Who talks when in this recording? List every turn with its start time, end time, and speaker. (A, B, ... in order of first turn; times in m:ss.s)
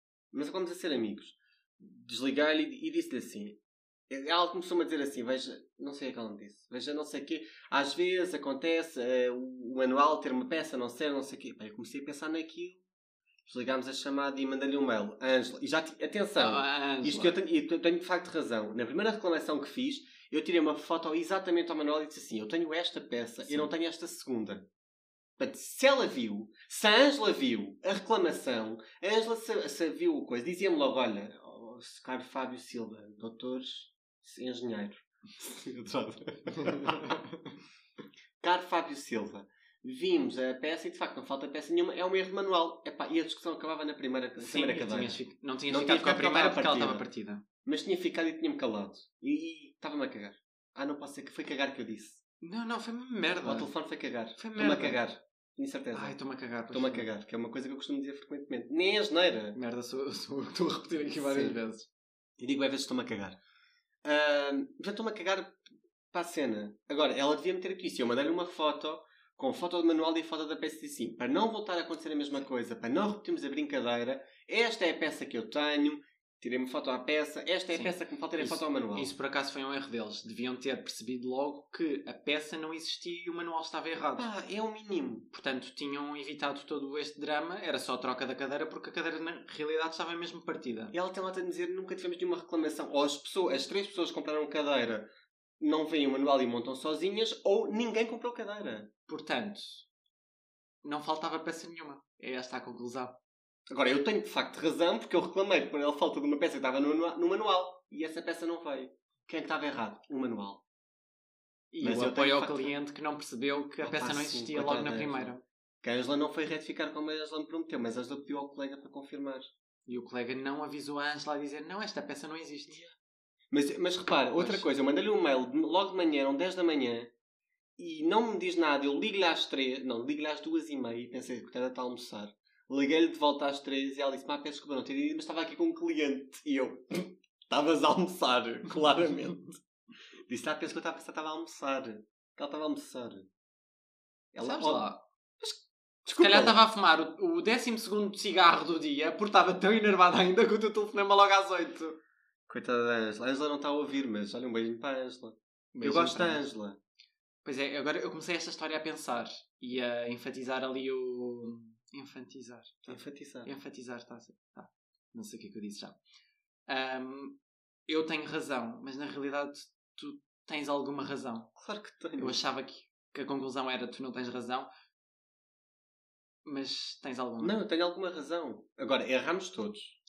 0:00.3-0:12.8 A
0:13.5-0:24.7 A
0:16.4-0:17.4 B
0:25.4-0:37.2 A
0:36.8-0:37.3 B
0:38.4-0:47.1 A
0:44.4-0:47.4 B
0:47.6-0:52.2 A
0:52.4-0:53.7 B
0:53.4-0:56.2 A
0:54.4-0:55.0 B
0:55.9-0:57.1 B
0:56.7-0:59.6 A
0:59.6-1:01.9 B
1:01.2-1:01.6 A
1:02.4-1:03.4 A
1:04.0-1:05.6 A
1:06.1-1:19.1 A
1:17.7-1:24.3 B
1:24.2-1:25.3 A
1:25.3-1:30.9 B
1:30.9-1:35.1 A
1:35.6-1:38.9 A
1:39.1-1:39.9 B
1:40.8-1:43.2 B
1:43.7-1:50.6 A
1:51.7-1:55.4 B
1:51.8-1:52.7 A
1:53.8-1:55.3 A
1:55.8-1:59.5 A
1:59.9-2:02.8 B
2:03.5-2:07.1 A
2:04.4-2:04.6 B
2:07.8-2:19.6 A
2:20.3-2:23.3 A
2:24.3-2:24.9 A
2:24.4-2:25.0 B
2:25.4-2:26.6 A
2:26.2-2:32.0 B
2:32.5-2:36.8 A
2:35.8-2:36.4 B
2:37.4-2:46.0 B
2:42.9-2:43.5 A
2:46.7-2:51.5 B
2:51.6-2:52.4 A
2:52.2-2:54.7 B
2:56.4-2:57.6 B
2:57.4-3:00.0 A